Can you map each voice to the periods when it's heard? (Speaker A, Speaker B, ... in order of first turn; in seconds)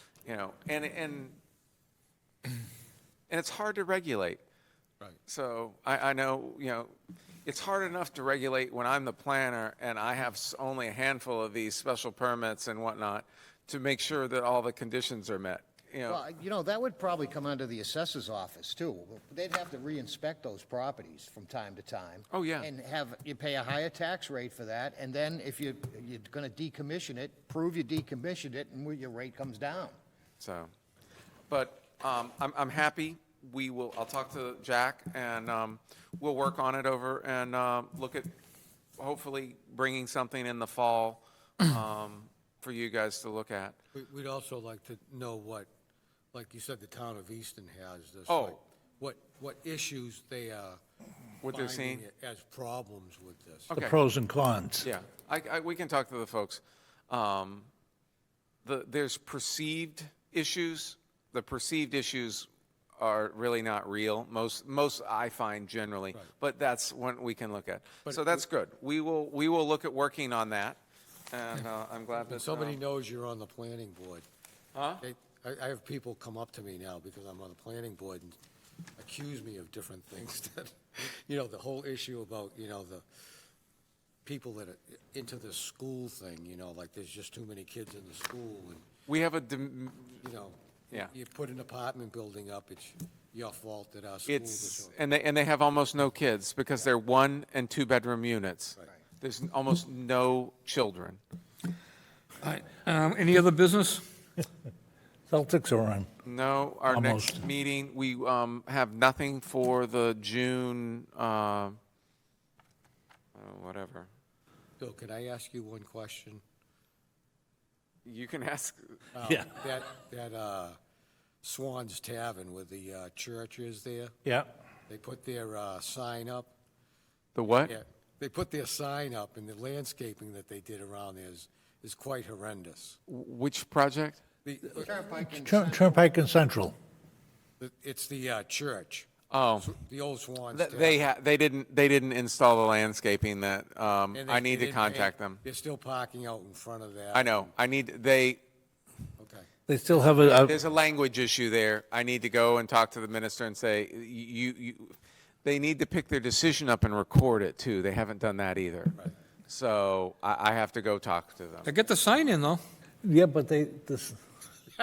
Speaker A: 0.2-1.4, 3.3-4.4, 5.3-6.9, 7.5-16.2, 22.3-22.7, 30.4-30.7, 31.5-38.3, 39.0-43.8, 48.3-48.6, 51.4-52.1, 53.7-54.0, 54.8-57.7, 58.6-62.5, 63.0-70.8, 71.3-72.8, 74.8-75.0, 89.1-90.2, 94.3-101.2, 106.2-111.8, 113.3-114.1, 118.0-119.0, 127.3-127.8, 133.1-134.2, 139.3-139.7, 140.5-145.4, 147.1-148.4, 150.2-161.7
Speaker B: 16.1-29.9, 134.8-136.1
Speaker C: 43.9-45.7, 46.3-50.8, 51.4-53.7, 68.1-68.5, 72.2-74.2, 75.0-78.4, 79.0-83.0, 84.2-88.9, 90.2-95.0, 114.8-116.4, 119.1-120.8, 121.4-124.2, 124.9-126.5, 127.7-133.0, 134.4-134.9, 137.6-139.1, 139.6-141.0, 144.1-147.5, 149.2-149.5
Speaker D: 53.7-54.9, 105.3-106.1, 106.9-107.4, 124.2-124.5, 135.3-136.7, 149.7-150.6, 163.0-164.2
Speaker E: 102.4-104.0, 161.6-162.6